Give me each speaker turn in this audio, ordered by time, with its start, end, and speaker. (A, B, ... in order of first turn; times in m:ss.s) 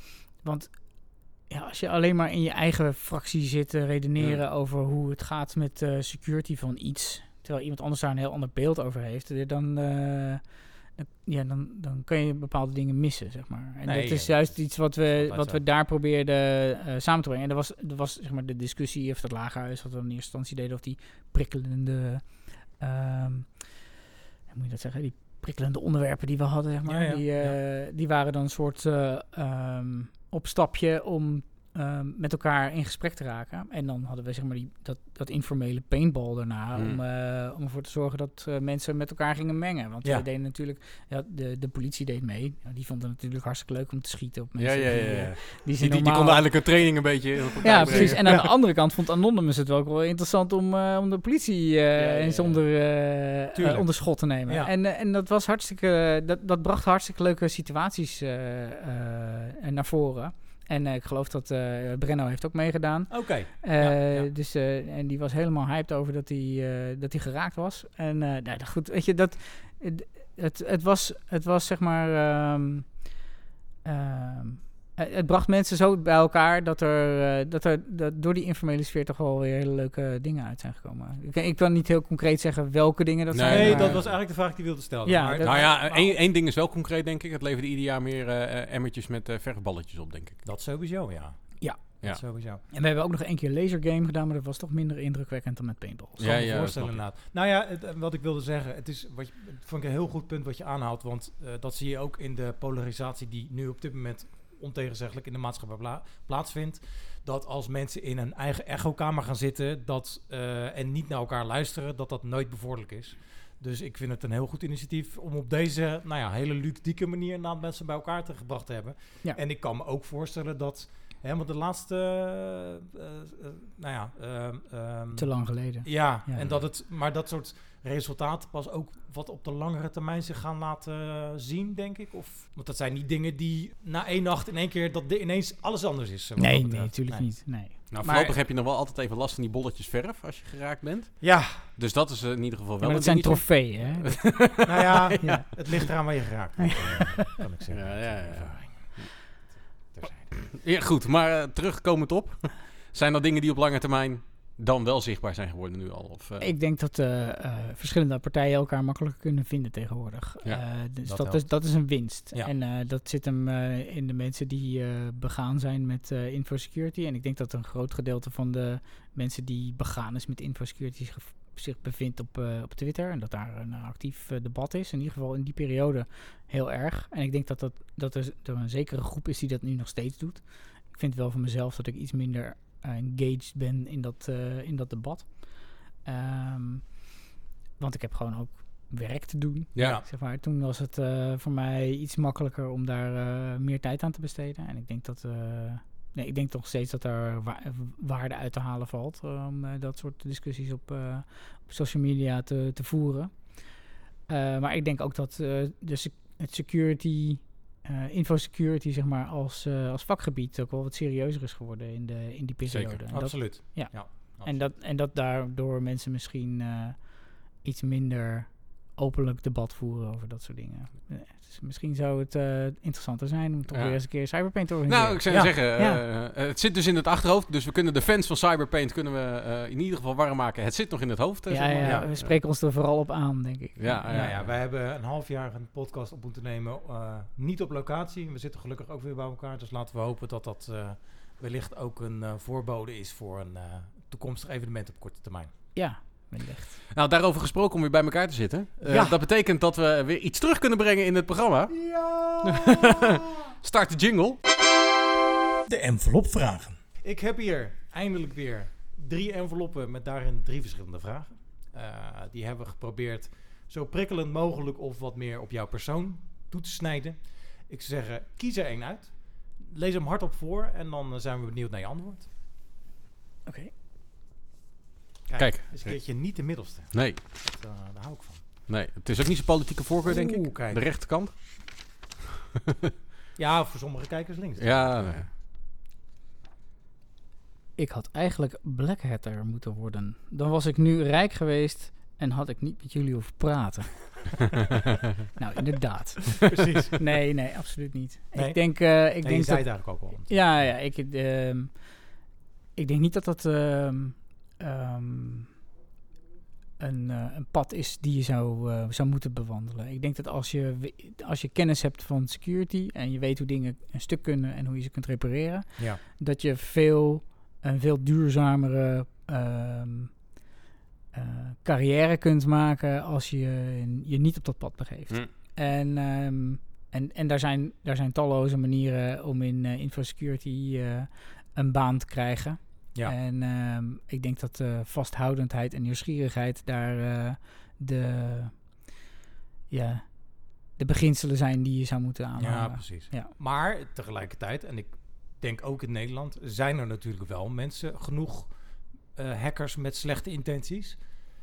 0:00.4-0:23.8 A
0:13.8-0:15.6 B
0:24.5-1:13.1 A
0:26.9-0:27.6 B
0:36.8-0:37.0 C
0:44.6-0:48.2 C
0:47.7-0:48.6 B
0:52.0-0:52.6 C
0:53.6-0:54.7 B
1:03.1-1:04.3 B
1:13.8-1:24.1 A
1:23.3-1:24.2 C
1:23.4-1:26.2 B
1:25.0-1:25.7 A
1:25.4-1:30.4 C
1:30.4-1:32.6 B
1:31.6-1:36.3 A
1:36.2-2:17.5 B
1:36.2-1:37.0 C
2:05.2-2:06.6 A
2:16.4-2:18.4 A
2:17.9-2:25.2 C
2:21.2-2:21.6 B
2:22.8-2:24.7 A
2:24.6-2:29.3 B
2:25.2-2:26.2 A
2:27.7-2:29.2 C
2:29.9-2:30.4 B
2:30.5-2:36.5 C
2:36.4-3:07.2 A
2:41.0-2:42.5 B
3:07.8-3:46.0 A
3:09.8-3:10.0 B
3:32.7-3:33.2 C
3:33.1-3:34.7 B
3:43.7-3:52.3 C
3:45.3-3:45.6 B
3:51.5-3:54.3 A
3:51.8-3:52.1 B
3:53.8-3:54.5 C
3:54.1-4:05.9 B
4:05.8-4:06.8 A
4:06.9-4:11.9 C
4:08.8-4:09.2 B
4:11.7-4:13.2 B
4:12.4-4:14.4 C
4:15.7-4:32.3 B
4:33.5-4:33.7 A
4:35.3-4:38.5 B
4:35.4-4:37.2 C
4:38.7-4:42.0 C
4:40.0-4:40.9 B
4:43.4-4:45.3 B
4:44.6-4:45.3 C
4:47.8-4:54.6 A
4:55.4-5:02.2 A
4:56.4-4:57.0 B
4:58.3-5:00.8 B
5:02.8-5:05.6 A
5:06.8-5:20.2 A
5:21.1-5:38.8 A
5:39.7-5:43.3 A
5:42.4-5:51.0 B